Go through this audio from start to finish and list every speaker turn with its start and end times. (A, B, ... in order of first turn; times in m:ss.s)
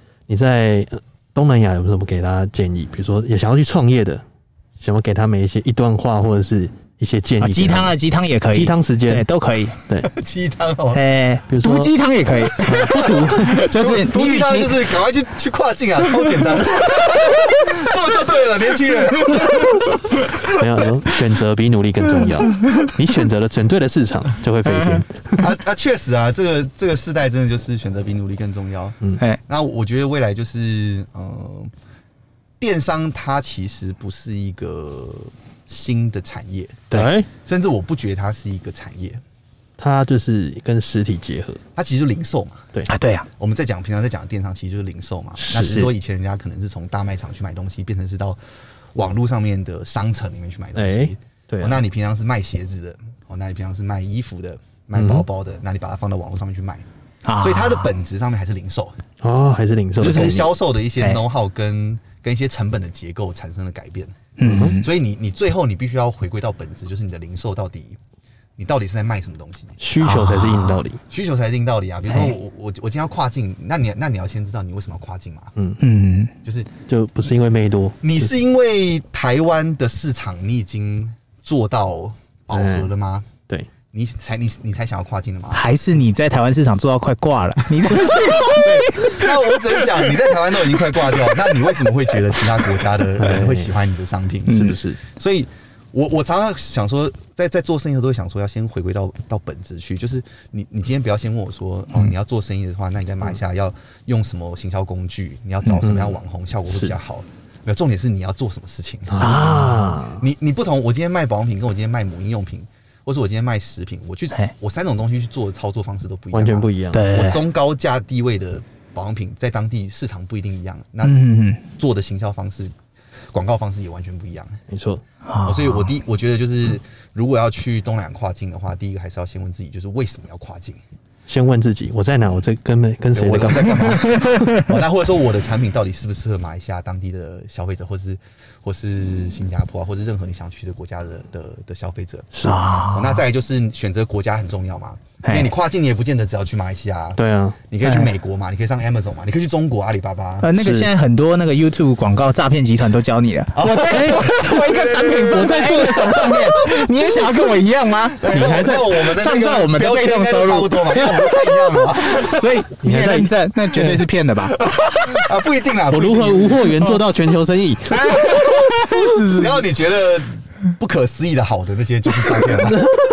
0:00.3-0:04.2 A
0:04.8-0:07.9 A
0:07.4-0:09.8 B
0:08.5-0:09.3 A
0:10.0-0:11.0 C
0:10.9-0:14.9 B
0:11.5-0:11.9 A
0:12.6-0:13.6 A
0:12.8-0:20.6 C
0:20.4-0:25.4 A
0:24.6-0:25.0 B
0:25.4-0:31.7 C
0:32.6-0:39.2 C
0:36.9-0:37.3 A
0:39.8-0:41.6 A
0:41.7-0:42.7 C
0:42.9-0:43.3 B
0:43.4-0:48.4 C
0:45.5-0:45.9 B
0:48.9-0:56.9 C
0:50.7-0:51.8 A
0:57.2-0:57.9 B
0:57.4-0:59.0 C
0:59.2-1:00.4 A
1:00.0-1:04.2 C
1:00.0-1:01.2 B
1:04.4-1:04.9 B
1:04.4-1:04.7 A
1:04.8-1:08.0 C
1:08.6-1:09.8 C
1:09.8-1:11.0 A
1:10.0-1:10.8 B
1:11.1-1:15.6 C
1:12.1-1:12.3 B
1:15.8-1:16.3 B
1:16.4-1:16.7 C
1:16.9-1:18.3 A
1:18.0-1:23.3 C
1:22.5-1:22.9 A
1:23.9-1:25.6 C
1:25.5-1:30.1 B
1:27.8-2:02.7 C
1:31.1-1:31.3 B
1:33.2-1:33.7 A
1:34.5-1:34.8 B
1:34.5-1:35.0 A
1:49.1-1:50.2 A
1:49.2-1:50.0 B
1:56.3-1:57.0 A
1:56.9-1:57.4 B
2:01.0-2:01.6 B
2:03.3-2:04.6 C
2:04.7-2:05.0 A
2:05.3-2:05.9 B
2:05.4-2:10.8 C
2:11.3-2:14.1 A
2:13.1-2:30.5 C
2:14.2-2:14.6 B
2:22.3-2:22.6 A
2:22.4-2:23.2 B
2:25.2-2:25.5 B
2:27.2-2:27.6 A
2:27.8-2:28.1 B
2:30.4-2:38.4 B
2:30.6-2:30.9 A
2:33.6-2:36.6 C
2:33.9-2:34.5 A
2:35.2-2:36.2 A
2:38.1-2:42.6 C
2:38.3-2:38.9 A
2:39.0-2:45.2 B
2:42.8-2:44.0 A
2:44.5-2:46.8 C
2:45.9-2:48.0 A
2:47.9-2:49.6 B
2:48.2-2:52.9 C